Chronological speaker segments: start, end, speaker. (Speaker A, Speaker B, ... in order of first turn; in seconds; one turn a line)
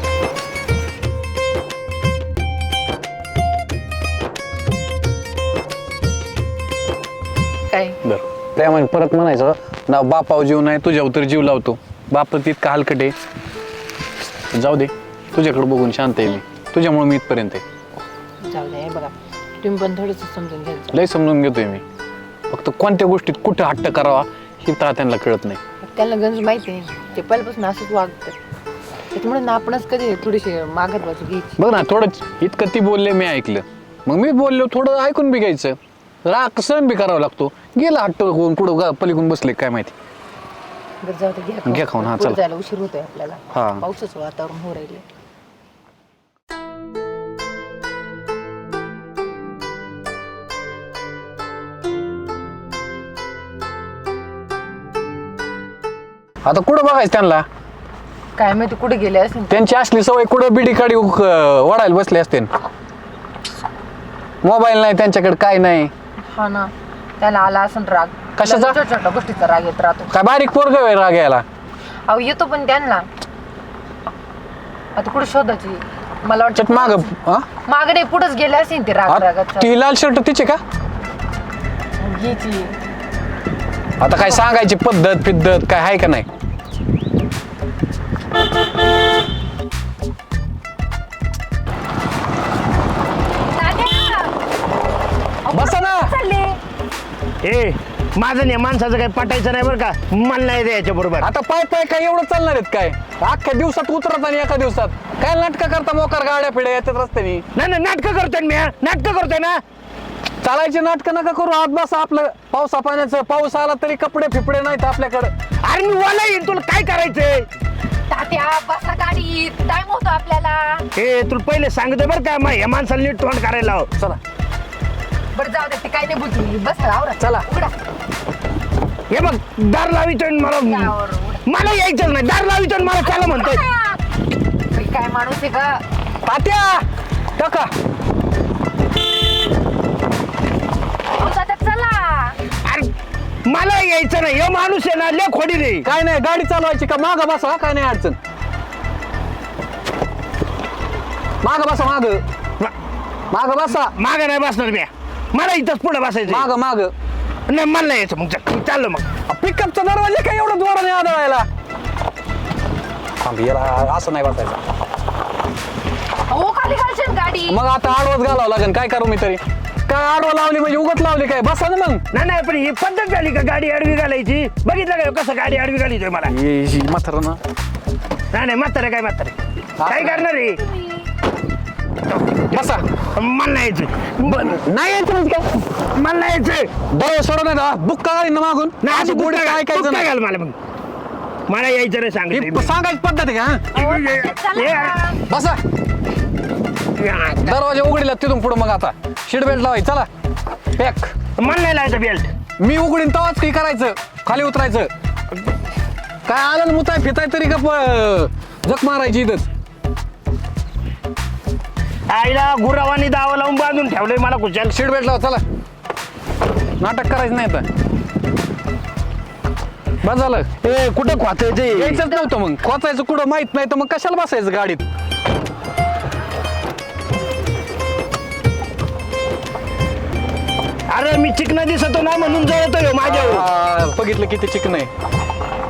Speaker A: 7.7-8.0
Speaker B: 8.0-13.1
Speaker B: 14.5-17.6
Speaker A: 18.4-21.0
Speaker B: 20.9-21.8
Speaker B: 22.5-25.6
Speaker A: 25.8-28.4
Speaker A: 29.1-31.6
Speaker B: 31.6-39.9
Speaker A: 41.0-45.0
Speaker B: 41.6-42.4
Speaker B: 43.5-43.8
Speaker B: 56.4-57.4
Speaker A: 58.4-59.6
Speaker B: 59.5-62.5
Speaker B: 64.4-65.9
Speaker A: 66.3-70.1
Speaker B: 68.4-68.8
Speaker B: 70.1-71.4
Speaker A: 72.1-73.1
Speaker A: 75.0-77.1
Speaker B: 76.5-77.5
Speaker A: 77.7-79.7
Speaker B: 79.1-80.6
Speaker A: 82.0-82.8
Speaker B: 84.0-86.2
Speaker A: 93.5-94.3
Speaker A: 95.4-96.6
Speaker B: 95.5-96.1
Speaker C: 97.4-101.3
Speaker B: 101.2-107.4
Speaker C: 107.5-109.6
Speaker B: 110.4-115.3
Speaker C: 115.6-117.5
Speaker A: 118.1-120.8
Speaker C: 121.0-123.9
Speaker A: 125.3-127.7
Speaker B: 127.2-127.4
Speaker C: 129.1-130.9
Speaker A: 130.6-131.4
Speaker C: 131.4-133.6
Speaker A: 133.0-134.0
Speaker A: 134.7-135.8
Speaker B: 136.2-136.8
Speaker B: 137.4-137.7
Speaker A: 141.1-142.4
Speaker C: 142.6-142.9
Speaker C: 143.4-145.8
Speaker B: 145.8-148.2
Speaker B: 151.4-152.2
Speaker B: 153.3-153.9
Speaker C: 154.0-156.5
Speaker B: 156.2-156.9
Speaker C: 157.5-159.1
Speaker B: 159.3-161.4
Speaker B: 163.2-164.6
Speaker A: 166.3-167.6
Speaker B: 167.5-172.0
Speaker C: 172.1-176.3
Speaker B: 176.3-177.4
Speaker C: 178.3-179.3
Speaker B: 179.8-180.3
Speaker C: 179.8-180.6
Speaker C: 182.1-184.6
Speaker B: 182.5-182.8
Speaker B: 184.2-185.7
Speaker C: 185.9-186.7
Speaker B: 186.9-190.1
Speaker C: 188.8-190.6
Speaker C: 191.5-192.7
Speaker B: 192.3-193.7
Speaker C: 193.7-195.1
Speaker A: 193.7-195.2
Speaker B: 195.3-195.6
Speaker C: 197.0-197.4
Speaker B: 197.4-200.1
Speaker B: 200.7-201.1
Speaker C: 201.4-202.3
Speaker B: 202.6-204.9
Speaker B: 206.2-209.5
Speaker C: 212.1-214.7
Speaker B: 214.7-215.4
Speaker B: 216.8-217.7
Speaker B: 220.0-220.5
Speaker C: 220.6-222.1
Speaker B: 221.7-224.8
Speaker C: 230.9-233.4
Speaker B: 233.0-234.9